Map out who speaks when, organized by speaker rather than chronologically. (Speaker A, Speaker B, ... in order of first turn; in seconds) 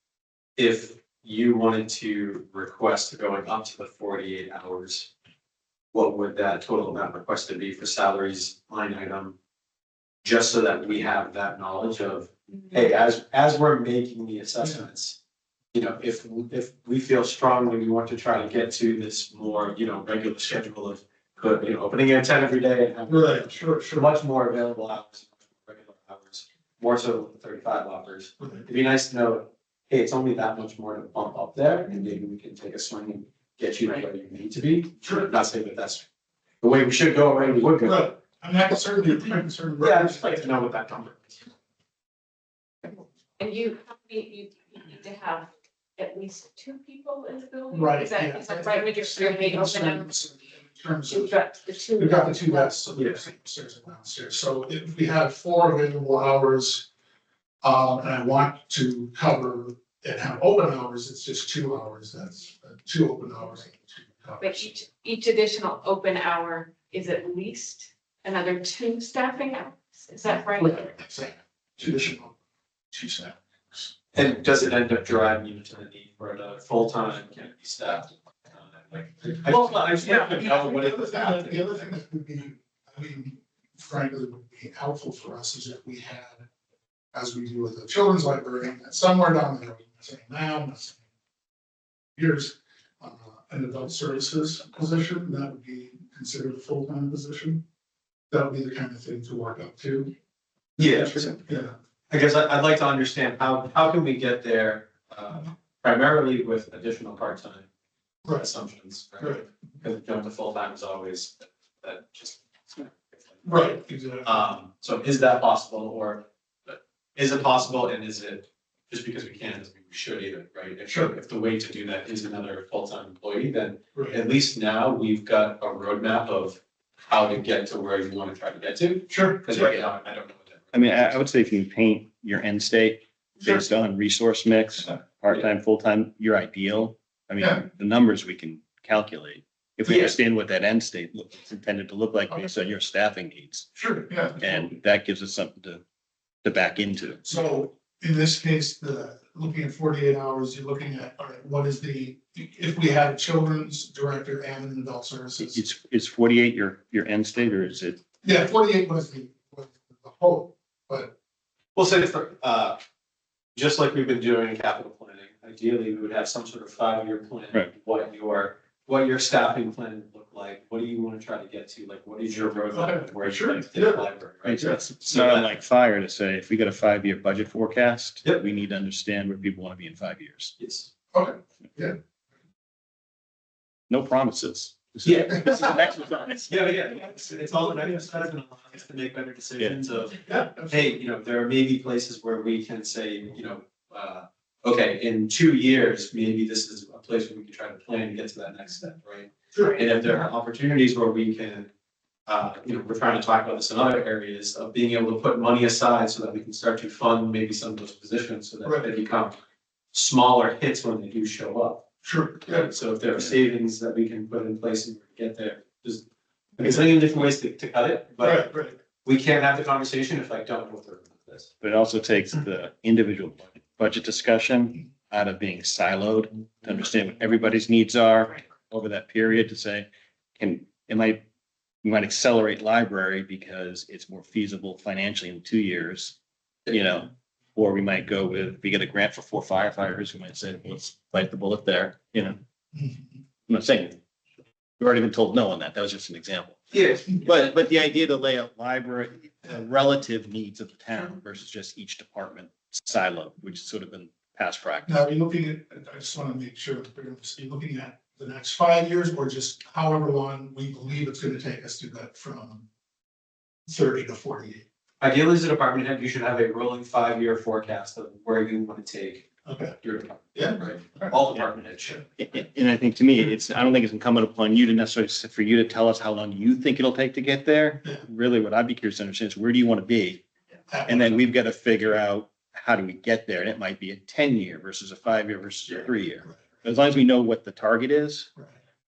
Speaker A: 0.6-5.1, 5.9-9.4, 10.2-15.2, 15.7-36.0, 36.6-38.1, 39.8-41.5, 74.1-81.8, 100.8-101.4, 102.1-107.7, 108.3-113.4, 114.2-131.2, 139.9-140.2, 161.8-162.8, 163.6-175.5, 180.6-180.9, 185.0-185.8, 186.5-201.7, 202.3-209.4, 209.9-211.9, 212.4-216.1, 216.6-221.5, 246.7-247.3, 265.0-269.3, 269.8-272.0
Speaker B: 23.1-24.1, 28.4-28.7, 35.0-35.3, 37.8-40.6, 47.7-56.9, 57.6-64.7, 70.6-72.3, 72.9-73.9, 79.3-86.5, 87.1-91.0, 92.2-97.6, 98.3-100.1, 100.8-101.8, 108.2-108.5, 109.2-109.5, 113.4-114.4, 120.9-121.1, 129.1-129.7, 143.8-144.7, 147.2-155.6, 158.2-161.2, 172.7-174.0, 181.1-182.0, 190.2-190.9, 199.5-200.2, 212.0-212.7, 218.2-218.8, 242.7-243.1, 254.9-262.6, 263.7-264.6, 269.4-269.8, 270.3-271.2, 280.7-281.2
Speaker C: 42.8-50.2, 51.1-52.9, 64.4-70.9
Speaker D: 130.7-143.7, 144.4-145.8, 146.4-147.2, 155.4-158.0, 174.5-180.5, 183.9-186.8, 221.6-229.9, 230.4-231.2, 231.8-236.2, 236.7-242.4, 243.5-244.0, 244.8-254.9, 272.2-280.2, 280.9-288.3